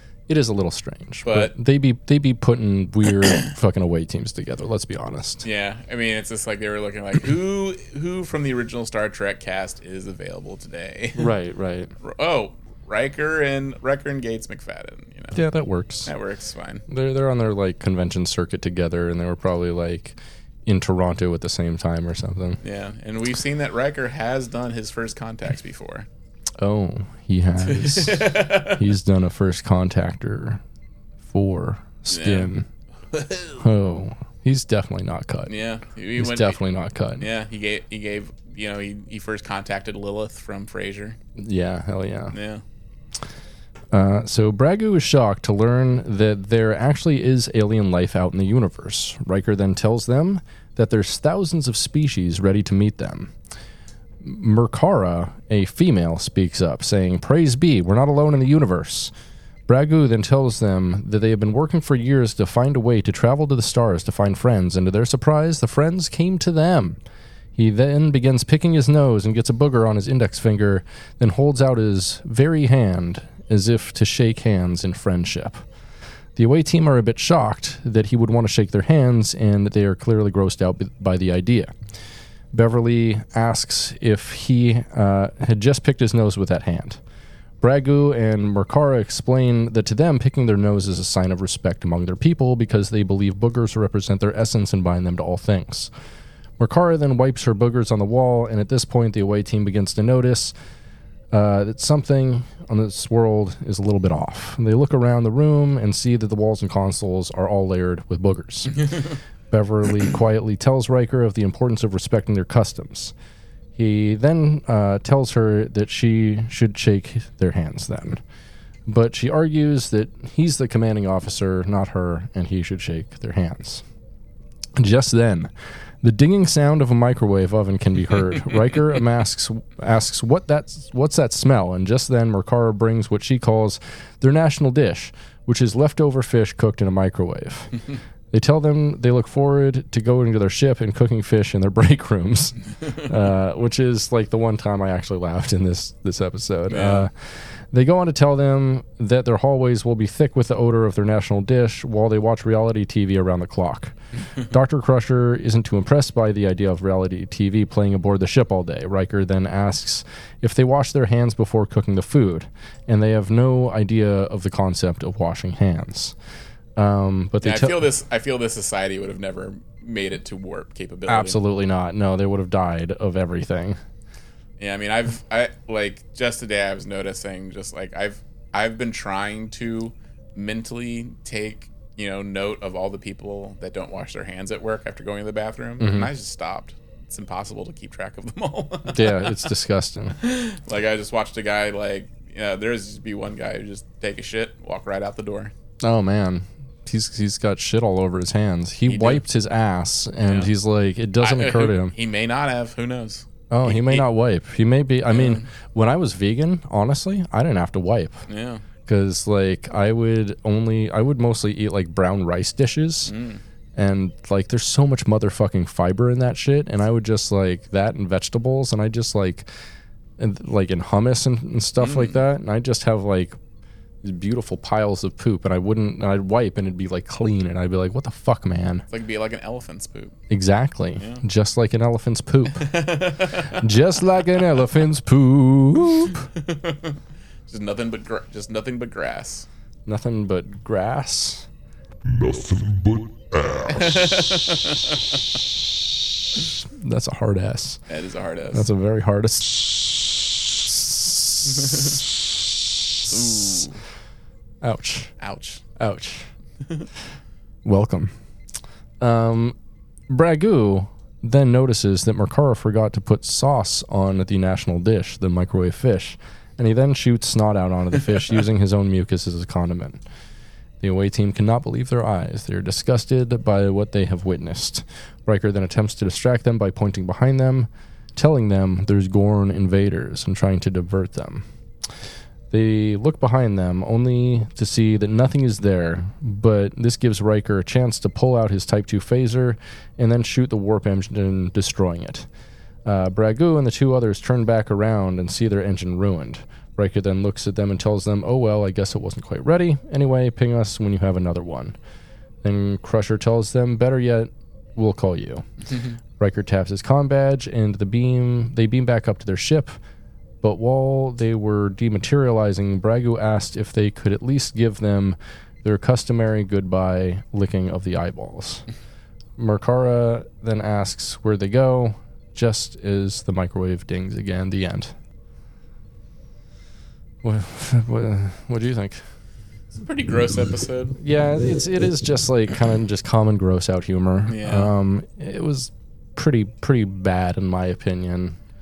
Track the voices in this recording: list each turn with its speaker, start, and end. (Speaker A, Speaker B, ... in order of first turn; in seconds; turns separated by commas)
Speaker A: 0.3-5.5, Speaker B: 1.2-1.5, Speaker B: 5.4-11.3, Speaker A: 11.2-11.9, Speaker B: 12.0-15.4, Speaker A: 15.3-16.1, Speaker B: 16.1-16.9, Speaker A: 16.9-22.6, Speaker B: 22.6-26.1, Speaker A: 26.6-30.6, Speaker B: 27.6-28.8, Speaker A: 31.3-32.7, Speaker B: 32.1-32.5, Speaker B: 33.1-33.6, Speaker A: 33.6-35.5, Speaker B: 35.5-36.6, Speaker A: 36.2-37.3, Speaker B: 37.2-41.2, Speaker A: 41.4-42.4, Speaker B: 42.3-42.6, Speaker A: 43.9-53.3, Speaker A: 54.2-59.1, Speaker A: 59.7-67.0, Speaker A: 67.5-75.6, Speaker A: 76.4-81.7, Speaker A: 82.5-87.0, Speaker A: 87.6-95.9, Speaker A: 96.6-100.5, Speaker A: 101.3-108.9, Speaker A: 109.5-113.1, Speaker A: 113.8-118.2, Speaker A: 118.9-123.8, Speaker A: 124.8-125.5, Speaker A: 126.0-147.1, Speaker B: 146.7-147.1, Speaker A: 147.7-154.0, Speaker A: 154.5-166.2, Speaker A: 166.8-167.9, Speaker B: 167.4-171.4, Speaker A: 171.1-173.8, Speaker B: 174.6-189.5, Speaker A: 185.8-186.1, Speaker A: 188.9-190.2, Speaker B: 190.2-195.5, Speaker A: 195.8-201.9, Speaker B: 198.9-199.2, Speaker B: 200.2-200.5, Speaker B: 201.2-204.1, Speaker A: 203.5-208.2, Speaker B: 205.1-205.5, Speaker B: 208.3-208.7, Speaker A: 208.9-213.1, Speaker B: 213.1-213.4, Speaker A: 213.8-219.5, Speaker A: 220.2-223.4, Speaker B: 221.8-222.2, Speaker A: 224.0-228.9, Speaker B: 228.9-230.1, Speaker A: 230.3-232.7, Speaker B: 231.0-231.2, Speaker B: 232.5-233.7, Speaker A: 233.5-236.3, Speaker B: 236.3-239.5, Speaker A: 239.9-241.5, Speaker C: 242.1-244.3, Speaker B: 243.7-245.2, Speaker A: 246.6-247.8, Speaker B: 247.9-248.7, Speaker A: 248.5-253.7, Speaker B: 251.4-252.0, Speaker B: 253.1-253.8, Speaker A: 254.6-255.1, Speaker B: 255.2-255.7, Speaker A: 255.8-256.3, Speaker A: 257.6-258.1, Speaker A: 259.0-259.6, Speaker A: 260.1-270.0, Speaker A: 270.8-281.5, Speaker A: 282.5-292.3, Speaker A: 292.9-301.8, Speaker A: 302.4-305.5, Speaker B: 305.7-306.0, Speaker A: 306.2-309.8, Speaker A: 310.4-318.7, Speaker A: 319.4-324.9, Speaker A: 327.2-329.0, Speaker B: 329.7-331.0, Speaker A: 331.0-338.4, Speaker B: 334.3-334.7